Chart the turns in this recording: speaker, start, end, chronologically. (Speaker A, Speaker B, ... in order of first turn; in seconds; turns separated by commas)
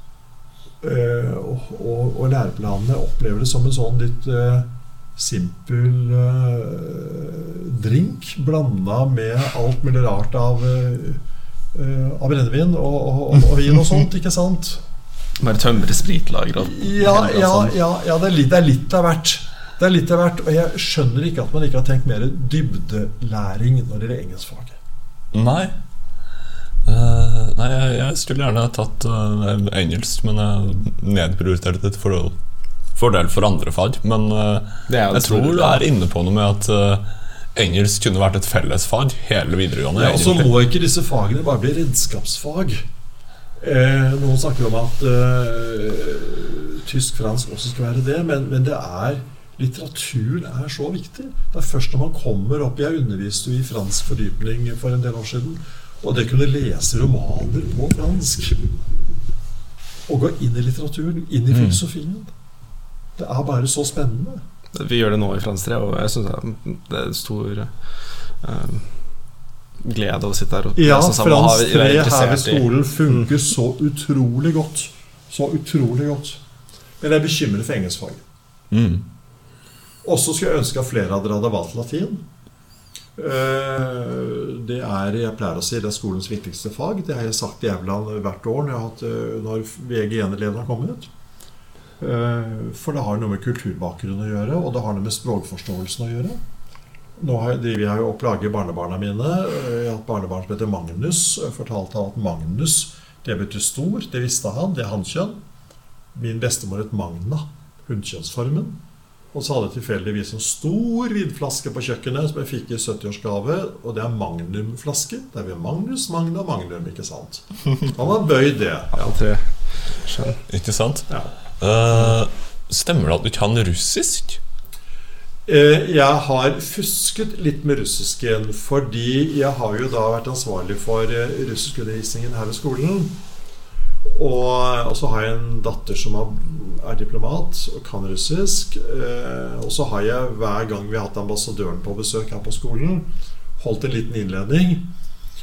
Speaker A: 0.8-11.2, Speaker A: 11.7-14.8, Speaker B: 15.4-17.8, Speaker A: 16.6-24.8, Speaker C: 25.3-25.7, Speaker C: 26.9-32.4, Speaker C: 33.0-40.5, Speaker B: 34.9-35.8, Speaker A: 40.0-42.9, Speaker A: 43.6-58.7, Speaker A: 60.1-62.3, Speaker C: 61.5-61.8, Speaker A: 63.2-64.4, Speaker B: 64.7-69.2, Speaker B: 69.8-73.3, Speaker A: 70.8-76.4, Speaker A: 77.0-78.2, Speaker C: 78.7-79.0, Speaker A: 80.0-82.2, Speaker A: 83.2-91.1, Speaker A: 92.0-96.4, Speaker A: 97.2-105.4, Speaker A: 106.1-108.8, Speaker A: 109.3-119.2, Speaker B: 119.0-120.4, Speaker C: 120.5-124.4, Speaker A: 125.5-133.2, Speaker A: 134.2-144.9